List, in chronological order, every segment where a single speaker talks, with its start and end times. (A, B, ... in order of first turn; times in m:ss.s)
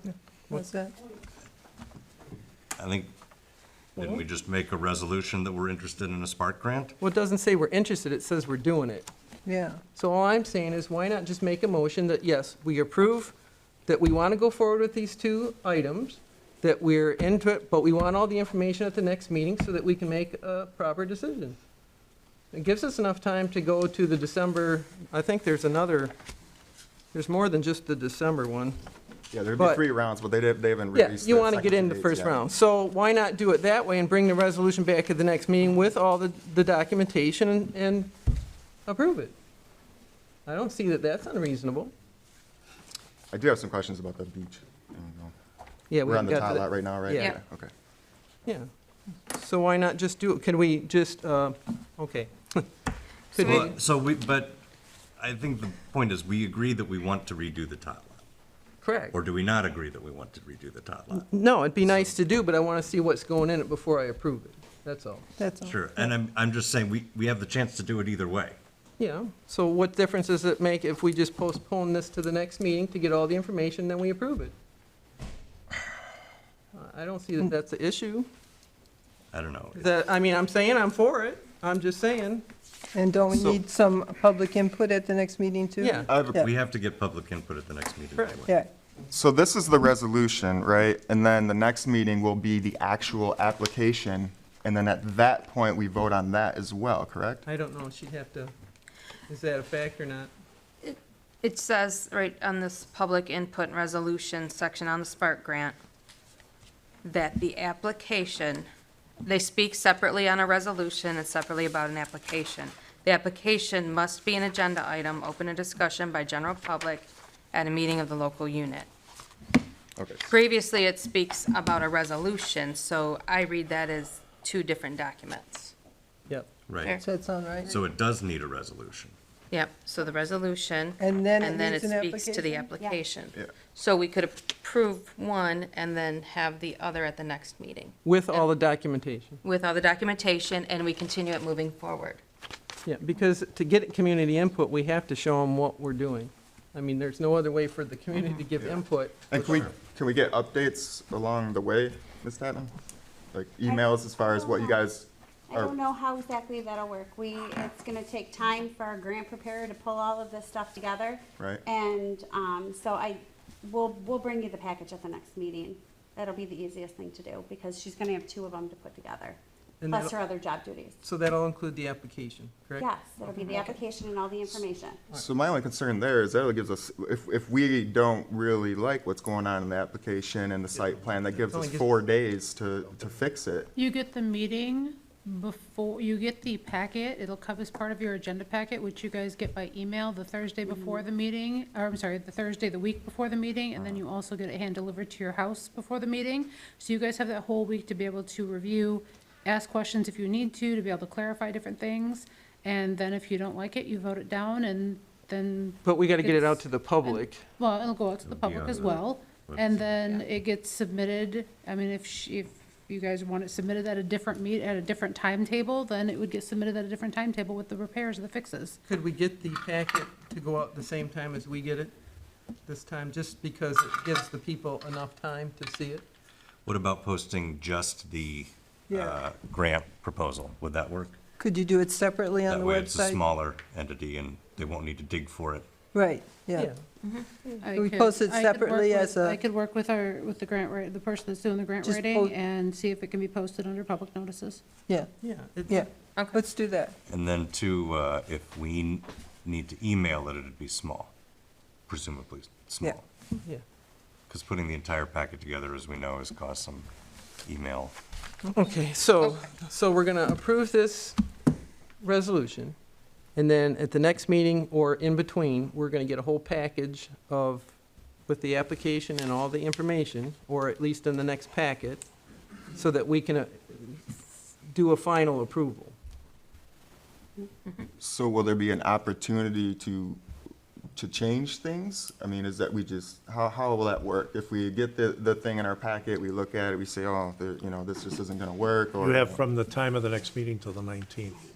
0:00.5-0:00.9 A
0:02.8-0:03.1 B
0:04.0-0:06.9 B
0:07.0-0:09.1 C
0:09.5-0:09.8 A
0:10.0-0:13.3 C
0:13.9-0:21.6 C
0:22.5-0:26.1 C
0:27.1-0:28.8 C
0:29.3-0:32.4 D
0:29.6-0:29.8 C
0:30.9-0:38.1 C
0:38.9-0:39.3 C
0:40.5-0:41.9 C
0:43.3-0:45.3 D
0:45.9-0:47.3 C
0:46.0-0:47.7 D
0:49.3-0:52.7 C
0:53.3-0:53.8 C
0:53.4-0:54.6 B
0:55.2-0:58.2 B
0:58.8-0:59.2 C
0:59.1-1:01.3 B
1:01.1-1:05.3 C
1:01.8-1:02.2 B
1:05.4-1:06.1 A
1:05.6-1:08.6 B
1:09.0-1:14.5 C
1:16.8-1:18.3 C
1:19.3-1:19.9 B
1:19.8-1:22.4 C
1:22.9-1:26.5 A
1:25.8-1:26.1 C
1:26.1-1:26.4 D
1:26.4-1:28.5 B
1:28.2-1:28.4 C
1:29.1-1:37.4 D
1:37.5-1:38.5 C
1:39.3-1:40.3 C
1:40.8-1:45.8 E
1:47.0-1:48.7 E
1:49.2-1:58.9 E
2:00.0-2:00.3 D
2:00.2-2:05.7 E
2:06.7-2:07.0 B
2:07.0-2:07.7 A
2:07.7-2:09.2 B
2:09.5-2:18.5 E
2:11.0-2:12.6 A
2:18.0-2:19.4 C
2:19.4-2:22.2 E
2:22.8-2:29.7 C
2:28.6-2:32.7 D
2:33.3-2:35.8 D
2:33.6-2:34.8 F
2:35.5-2:51.0 F
2:49.8-2:50.2 C
2:51.0-2:53.8 C
2:52.8-2:55.0 F
2:55.1-3:03.7 D
3:00.7-3:02.0 C
3:03.8-3:38.8 G
3:10.6-3:11.0 F
3:25.8-3:27.4 C
3:28.2-3:30.1 B
3:38.9-3:41.9 C
3:42.7-3:46.1 C
3:46.7-3:51.2 B
3:48.9-3:49.2 A
3:51.4-3:53.2 A
3:52.5-3:55.7 B
3:55.9-3:56.7 A
3:57.0-3:57.3 E
3:57.6-3:59.4 A
3:57.6-4:04.6 G
4:01.8-4:02.4 A
4:05.2-4:05.8 C
4:05.7-4:06.9 A
4:07.1-4:11.1 B
4:11.9-4:13.0 B
4:14.3-4:16.9 B
4:17.5-4:17.9 B
4:18.5-4:21.2 C
4:22.0-4:22.8 C
4:23.4-4:27.8 C
4:28.3-4:32.1 C
4:32.7-4:36.0 C
4:38.0-4:40.2 D
4:41.0-4:49.4 D
4:49.0-4:51.4 H